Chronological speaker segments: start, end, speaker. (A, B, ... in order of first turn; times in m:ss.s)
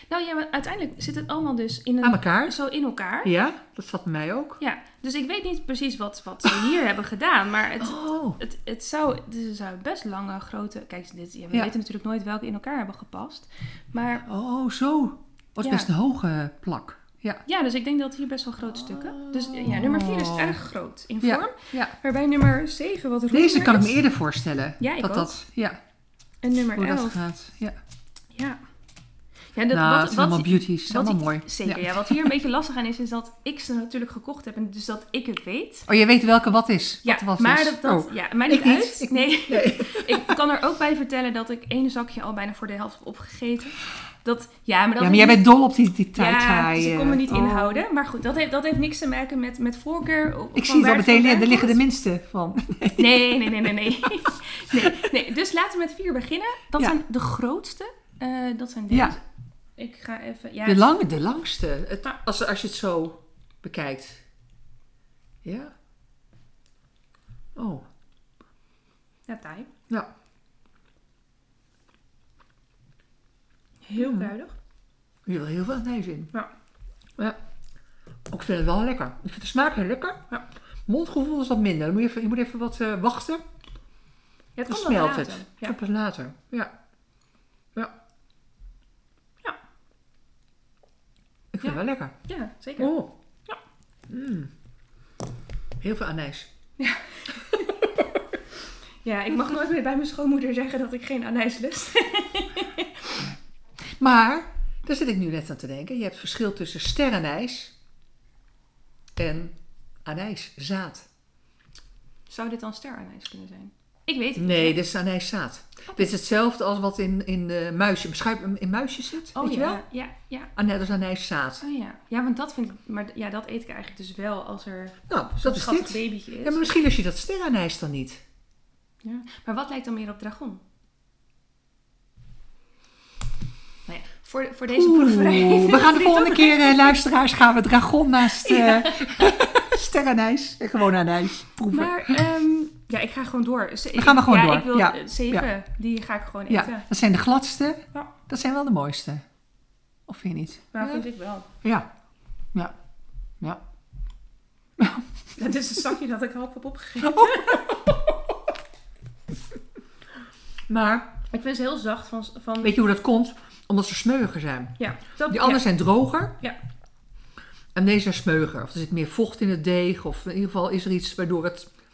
0:00.1-0:03.3 A
0:02.0-0:02.6 B
0:03.2-0:04.6 B
0:04.6-0:14.2 A
0:07.8-0:08.4 B
0:14.3-0:17.4 B
0:15.6-0:15.9 A
0:17.5-0:24.0 A
0:18.6-0:20.6 B
0:21.2-0:21.9 B
0:23.3-0:25.8 B
0:24.8-0:25.3 A
0:26.4-0:27.2 A
0:26.7-0:27.8 B
0:29.5-0:35.9 A
0:29.7-0:32.3 B
0:35.9-0:40.4 B
0:37.0-0:45.5 A
0:45.0-0:47.8 B
0:46.1-0:51.8 A
0:50.6-0:55.1 B
0:53.0-0:59.2 A
0:58.9-0:59.2 B
0:59.8-1:00.9 A
1:00.6-1:04.2 B
1:05.4-1:05.7 B
1:07.6-1:07.8 B
1:09.3-1:09.7 A
1:13.9-1:14.6 A
1:14.0-1:14.3 B
1:15.3-1:16.3 B
1:18.3-1:20.2 B
1:20.9-1:23.4 B
1:24.6-1:25.8 A
1:24.7-1:26.7 B
1:31.5-1:32.2 B
1:31.6-1:33.0 A
1:32.8-1:33.1 B
1:34.1-1:34.5 B
1:35.8-1:36.5 B
1:36.8-1:38.1 A
1:39.0-1:43.3 A
1:43.8-1:47.7 B
1:49.2-1:51.1 B
1:52.3-1:54.8 A
1:54.4-1:59.8 B
1:55.9-1:56.1 A
1:59.4-2:00.5 A
2:00.6-2:01.6 B
2:01.6-2:06.7 A
2:05.1-2:08.2 B
2:09.0-2:10.6 A
2:13.9-2:17.0 A
2:14.7-2:22.2 B
2:18.2-2:19.4 A
2:21.7-2:26.9 A
2:24.0-2:25.5 B
2:26.5-2:29.2 B
2:30.1-2:31.1 B
2:30.7-2:31.5 A
2:31.6-2:31.9 B
2:34.8-2:35.1 B
2:35.4-2:37.9 A
2:37.0-2:38.2 B
2:40.7-2:41.2 B
2:41.3-2:42.8 A
2:42.6-2:44.8 B
2:44.8-2:45.7 A
2:45.3-2:46.4 B
2:47.8-2:51.7 B